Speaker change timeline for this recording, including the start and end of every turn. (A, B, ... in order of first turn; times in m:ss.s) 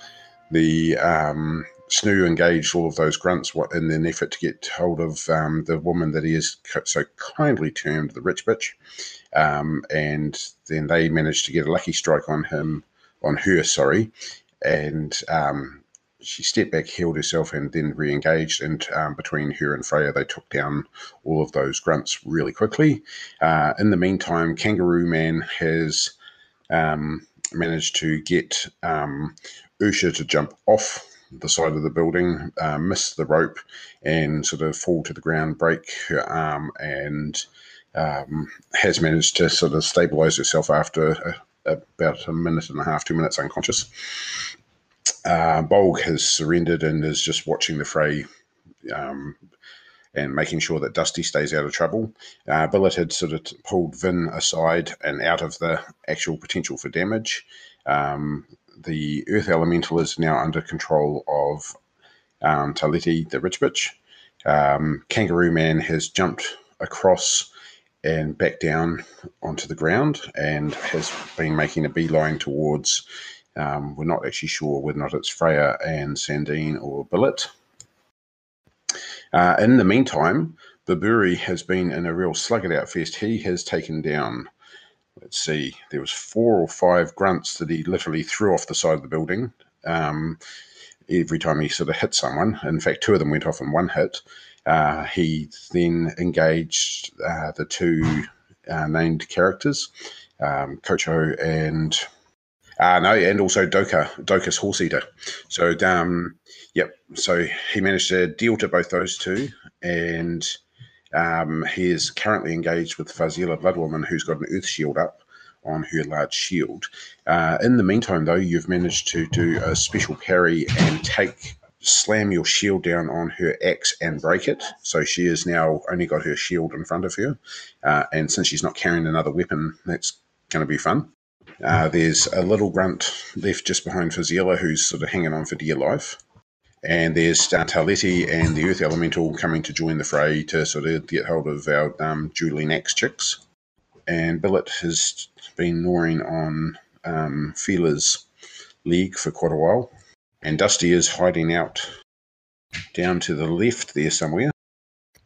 0:00.5-0:08.8 A
0:09.3-0:14.1 A
0:14.6-0:26.1 A
0:26.7-0:37.4 A
0:38.0-0:44.5 A
0:45.2-0:48.3 A
0:48.8-0:49.4 A
0:50.1-1:01.8 A
1:02.4-1:07.5 A
1:08.0-1:13.0 A
1:13.6-1:17.5 A
1:19.3-1:24.5 A
1:25.2-1:30.4 A
1:31.1-1:39.9 A
1:40.4-1:42.0 A
1:42.8-1:50.6 A
1:51.1-2:11.1 A
2:11.6-2:16.2 A
2:16.8-2:23.4 A
2:24.1-2:28.3 A
2:28.8-2:31.9 A
2:32.9-2:34.5 A